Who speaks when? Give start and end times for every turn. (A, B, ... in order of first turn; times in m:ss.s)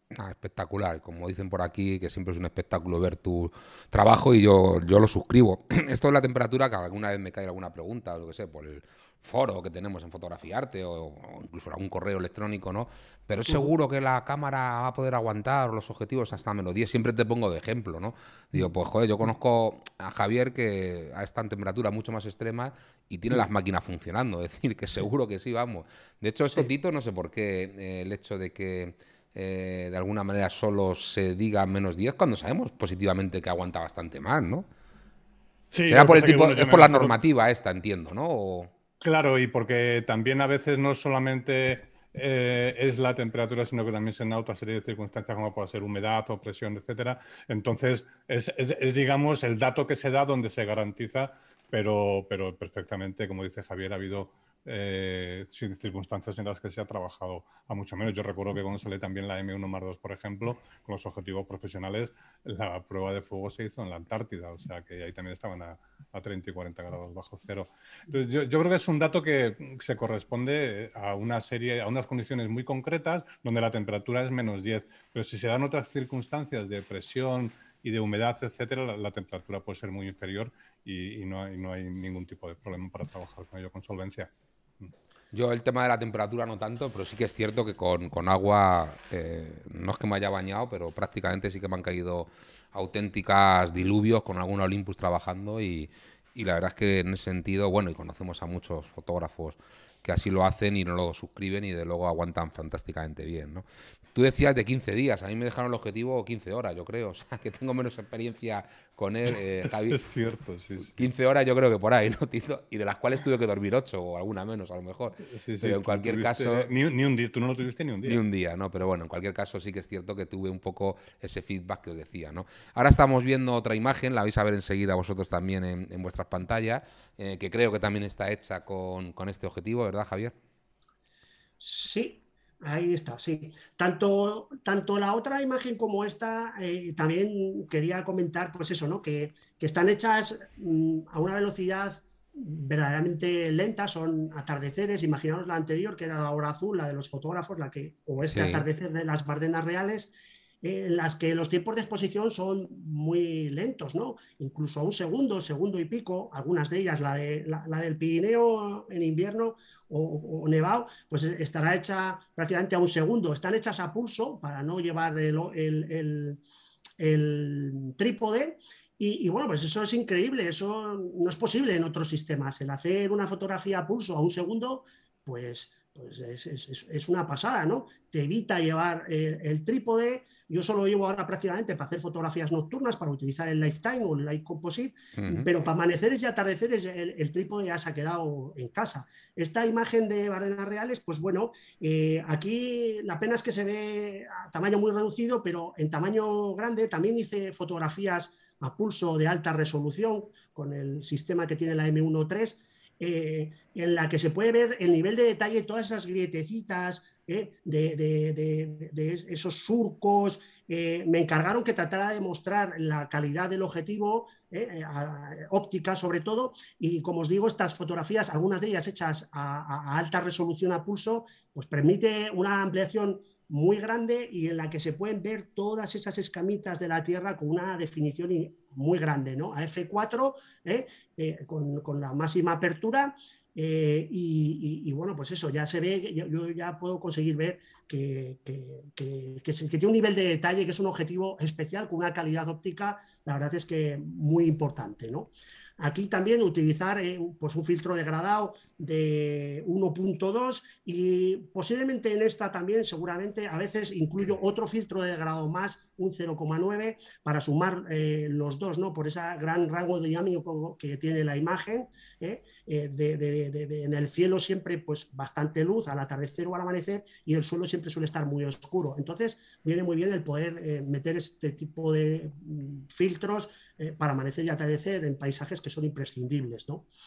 0:00.1-0:34.7 A
0:26.4-0:26.7 B
0:35.7-0:37.2 C
0:35.9-0:38.7 A
0:39.0-1:24.9 C
1:25.3-1:50.0 A
1:49.3-1:51.1 C
1:51.0-1:56.7 A
1:55.3-1:58.2 C
1:58.0-2:10.3 A
2:11.6-2:46.4 B
2:28.3-2:28.6 A
2:47.0-4:36.9 B
3:05.2-3:05.5 A